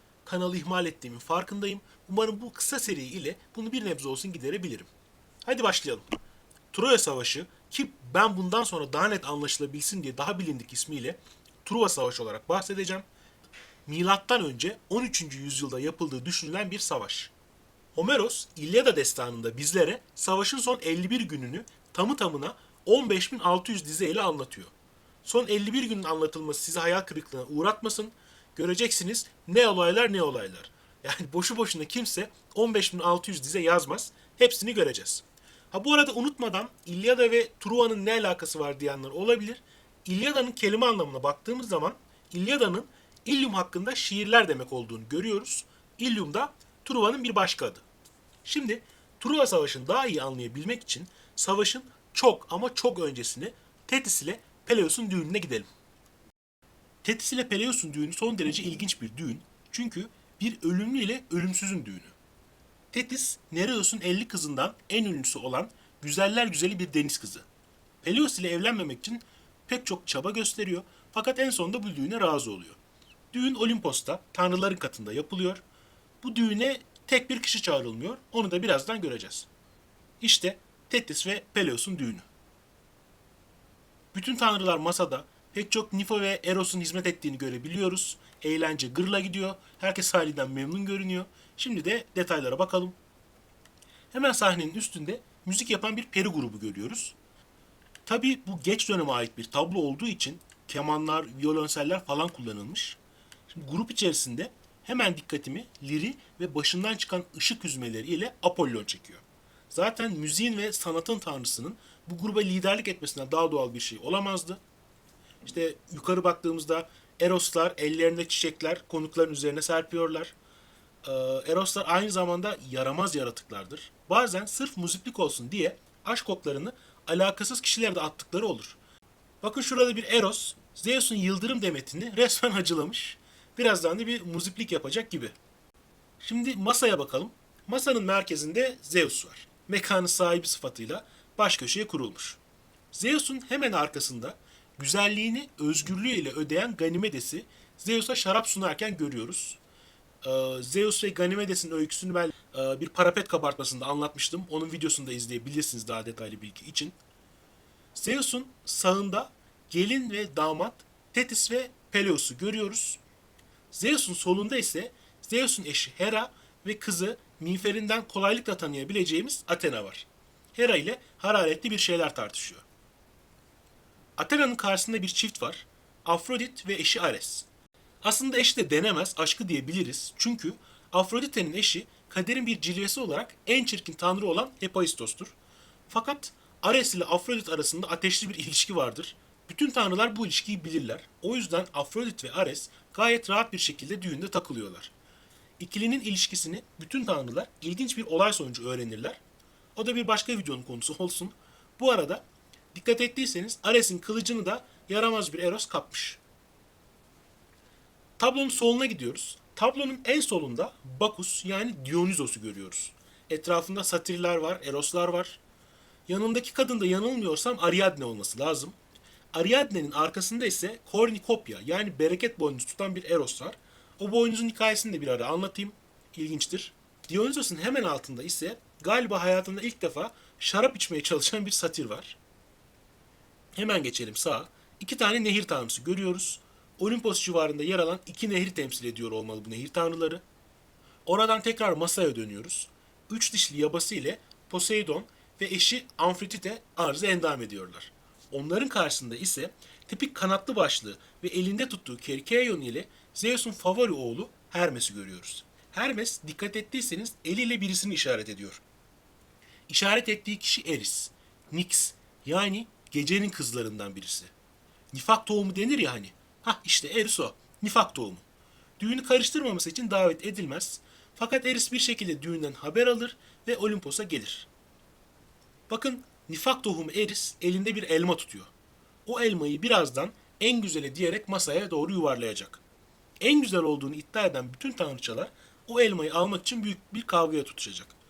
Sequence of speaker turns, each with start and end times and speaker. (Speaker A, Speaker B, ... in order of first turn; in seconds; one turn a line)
Speaker A: 0.2-4.9
Speaker A: 5.4-6.1
Speaker A: 6.7-13.0
Speaker A: 13.8-17.3
Speaker A: 17.9-24.7
Speaker A: 25.2-47.8
Speaker A: 48.4-55.7
Speaker A: 57.0-62.1
Speaker A: 62.9-67.5
Speaker A: 68.0-72.8
Speaker A: 73.3-75.6
Speaker A: 76.2-79.5
Speaker A: 80.2-82.2
Speaker A: 84.1-93.0
Speaker A: 94.1-97.2
Speaker A: 98.0-103.0
Speaker A: 103.5-114.6
Speaker A: 115.4-120.3
Speaker A: 121.0-128.8
Speaker A: 129.4-135.3
Speaker A: 136.2-142.4
Speaker A: 142.9-149.6
Speaker A: 150.2-157.0
Speaker A: 157.9-163.0
Speaker A: 163.7-172.6
Speaker A: 174.2-177.5
Speaker A: 178.0-185.3
Speaker A: 185.9-194.9
Speaker A: 195.6-199.2
Speaker A: 199.8-206.2
Speaker A: 208.2-215.4
Speaker A: 216.1-218.8
Speaker A: 219.3-232.2
Speaker A: 233.5-240.2
Speaker A: 241.1-258.6
Speaker A: 259.7-264.3
Speaker A: 264.9-268.2
Speaker A: 268.8-274.5
Speaker A: 275.7-278.5
Speaker A: 279.0-282.6
Speaker A: 283.2-287.9